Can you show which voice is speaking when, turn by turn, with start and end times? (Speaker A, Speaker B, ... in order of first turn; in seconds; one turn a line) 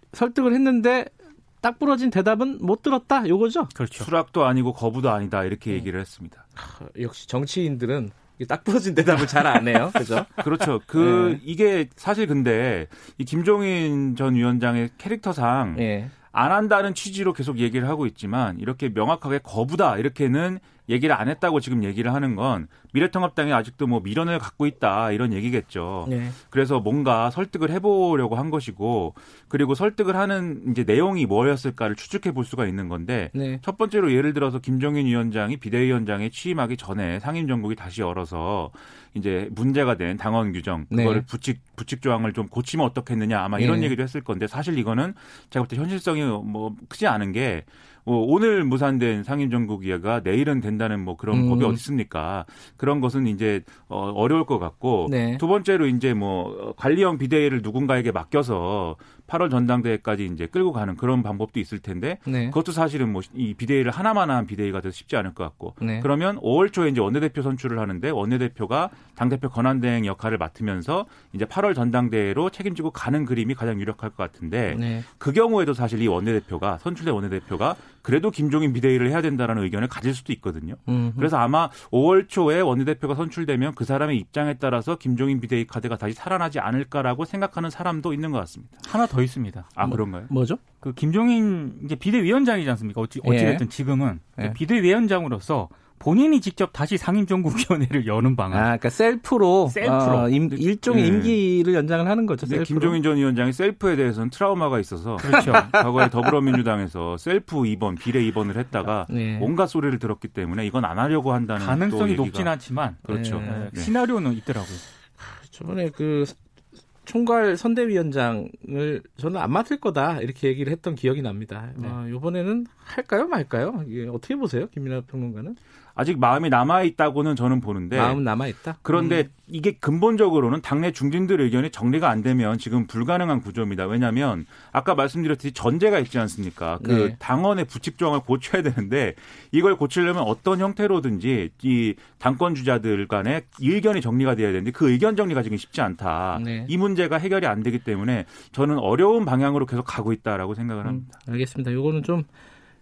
Speaker A: 0.1-3.7
Speaker B: 3.8-4.1
Speaker C: 4.0-6.4
Speaker A: 6.6-11.4
Speaker C: 10.4-88.8
Speaker A: 15.8-16.1
Speaker A: 26.1-26.4
Speaker A: 33.4-33.6
Speaker A: 40.9-41.2
Speaker A: 43.6-44.0
Speaker A: 51.3-51.8
Speaker A: 55.1-55.4
Speaker A: 62.3-62.6
Speaker A: 65.8-66.1
Speaker A: 74.7-75.1
Speaker A: 80.9-81.3
Speaker B: 88.9-89.7
Speaker C: 89.8-90.3
Speaker A: 89.8-90.6
Speaker B: 90.8-98.7
Speaker A: 93.2-93.6
Speaker A: 98.5-103.0
Speaker B: 99.7-100.6
Speaker C: 100.9-101.4
Speaker C: 102.4-113.9
Speaker B: 105.2-105.8
Speaker A: 105.3-105.7
Speaker A: 109.1-109.5
Speaker B: 111.6-114.8
Speaker A: 113.1-113.7
Speaker A: 115.2-116.4
Speaker A: 117.0-125.6
Speaker C: 126.0-128.3
Speaker A: 127.9-129.3
Speaker C: 128.8-151.2
Speaker A: 136.8-137.2
Speaker A: 146.3-146.7
Speaker A: 150.8-152.3